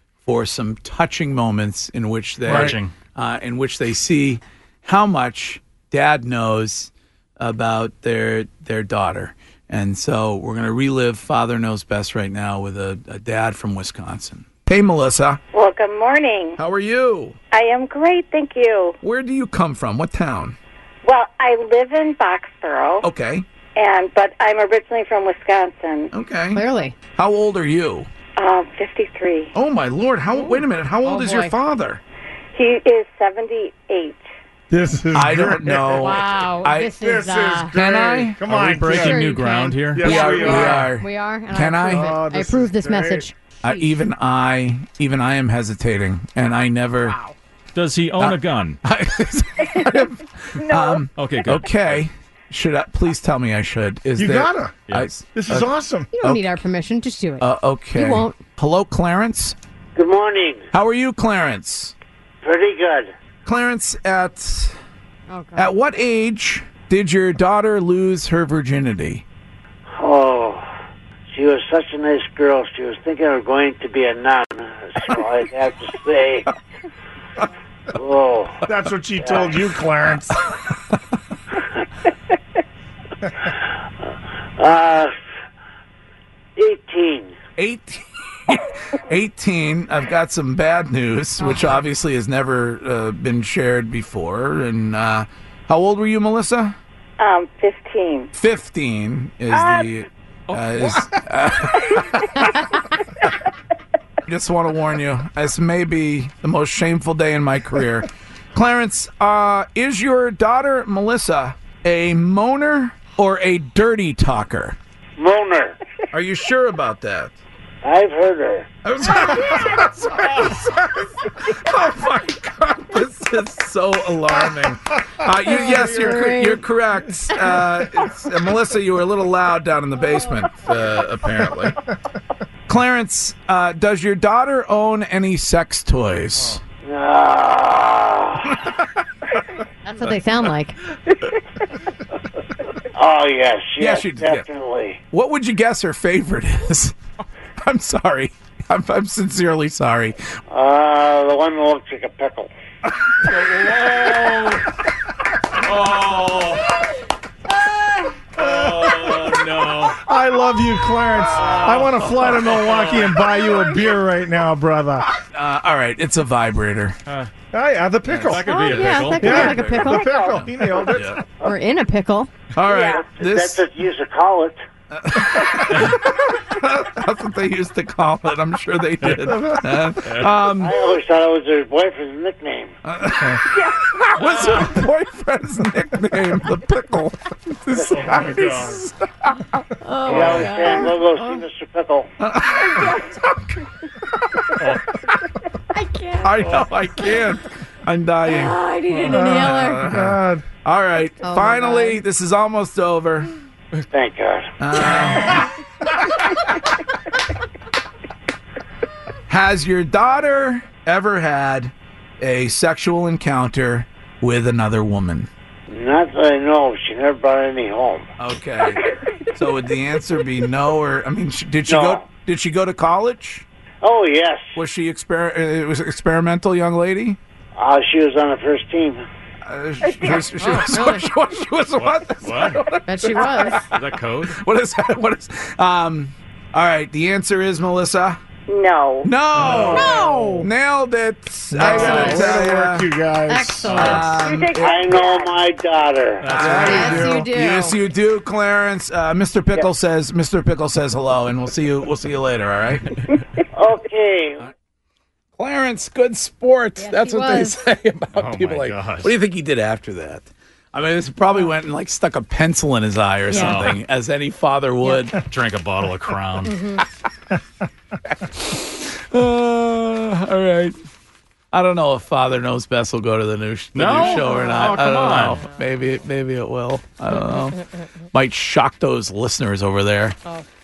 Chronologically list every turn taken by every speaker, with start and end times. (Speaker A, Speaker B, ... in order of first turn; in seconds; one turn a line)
Speaker A: 0.2-15.4
Speaker B: 2.5-2.9
Speaker C: 2.5-2.7
Speaker D: 15.5-16.6
Speaker A: 16.6-17.4
Speaker D: 17.5-19.0
Speaker A: 19.0-20.6
Speaker D: 21.0-23.0
Speaker A: 23.0-23.4
Speaker D: 23.8-26.1
Speaker A: 26.1-26.6
Speaker E: 26.5-26.9
Speaker A: 27.1-28.1
Speaker D: 28.4-29.5
Speaker A: 29.5-32.0
Speaker E: 30.3-31.5
Speaker D: 32.5-34.2
Speaker C: 34.7-36.1
Speaker A: 35.1-37.0
Speaker E: 35.8-37.7
Speaker C: 37.0-39.4
Speaker A: 37.6-38.4
Speaker B: 38.4-40.4
Speaker E: 38.9-43.9
Speaker C: 39.9-40.9
Speaker A: 40.0-42.1
Speaker C: 41.9-43.3
Speaker A: 43.6-47.2
Speaker B: 47.7-48.8
Speaker A: 48.2-55.7
Speaker B: 51.1-52.0
Speaker C: 54.2-54.7
Speaker C: 55.3-56.1
Speaker E: 56.1-58.4
Speaker A: 56.2-56.6
Speaker A: 57.4-59.5
Speaker F: 59.9-60.7
Speaker A: 60.7-61.9
Speaker F: 62.4-63.1
Speaker A: 63.4-64.8
Speaker E: 65.3-65.7
Speaker A: 65.5-69.2
Speaker F: 69.9-70.7
Speaker F: 71.3-76.5
Speaker F: 77.9-78.6
Speaker C: 78.6-80.4
Speaker F: 79.2-79.6
Speaker F: 84.6-85.1
Speaker F: 86.5-87.3
Speaker A: 87.6-96.8
Speaker D: 97.2-98.3
Speaker A: 98.3-102.3
Speaker D: 99.5-99.9
Speaker B: 100.5-101.1
Speaker A: 104.2-114.8
Speaker F: 115.2-115.8
Speaker A: 116.1-117.3
Speaker F: 117.8-118.7
Speaker A: 118.8-131.8
Speaker E: 125.5-126.6
Speaker A: 132.7-136.6
Speaker F: 136.8-138.6
Speaker E: 139.8-140.8
Speaker F: 142.9-145.0
Speaker A: 143.8-144.4
Speaker A: 145.1-146.9
Speaker A: 147.6-150.2
Speaker F: 150.5-152.5
Speaker B: 153.2-154.7
Speaker B: 155.6-156.7
Speaker B: 158.3-160.0
Speaker C: 159.9-165.1
Speaker B: 161.3-163.6
Speaker A: 165.3-167.0
Speaker C: 167.5-168.4
Speaker B: 168.2-169.7
Speaker E: 168.3-170.3
Speaker C: 169.2-171.2
Speaker E: 171.4-172.3
Speaker A: 172.5-173.6
Speaker F: 172.6-174.6
Speaker A: 174.9-180.8
Speaker F: 180.5-182.7
Speaker A: 182.8-183.4
Speaker A: 183.9-190.6
Speaker B: 184.2-184.6
Speaker B: 188.2-188.7
Speaker E: 189.8-191.4
Speaker F: 190.1-192.1
Speaker A: 192.2-193.2
Speaker E: 195.7-197.2
Speaker A: 196.2-203.3
Speaker E: 198.3-199.9
Speaker C: 199.1-200.4
Speaker E: 201.2-202.0
Speaker F: 203.9-204.5
Speaker A: 204.6-205.4
Speaker A: 209.3-215.3
Speaker F: 215.7-218.1
Speaker A: 218.2-223.4
Speaker F: 221.7-222.0
Speaker F: 223.8-224.5
Speaker A: 224.5-227.2
Speaker F: 227.6-229.0
Speaker A: 229.4-238.2
Speaker E: 230.1-231.1
Speaker B: 232.1-232.6
Speaker E: 232.8-233.6
Speaker B: 233.6-234.4
Speaker D: 238.5-239.1
Speaker A: 239.0-242.9
Speaker B: 239.4-239.6
Speaker C: 239.4-240.4
Speaker E: 239.5-240.5
Speaker C: 241.5-244.0
Speaker B: 241.6-242.0
Speaker E: 241.8-242.3
Speaker E: 243.3-244.4
Speaker A: 243.6-244.9
Speaker B: 243.7-244.0
Speaker D: 244.1-245.4
Speaker F: 244.6-246.4
Speaker B: 246.2-247.0
Speaker A: 246.2-252.9
Speaker E: 246.4-247.8
Speaker F: 253.5-254.4
Speaker A: 255.4-265.2
Speaker E: 256.8-257.6
Speaker B: 258.1-259.1
Speaker E: 263.3-263.6
Speaker B: 263.3-263.8
Speaker B: 265.2-266.6
Speaker E: 266.4-266.8
Speaker A: 268.2-270.8
Speaker A: 271.5-277.6
Speaker B: 273.7-275.4
Speaker E: 274.1-275.6
Speaker E: 277.1-277.8
Speaker A: 278.1-280.2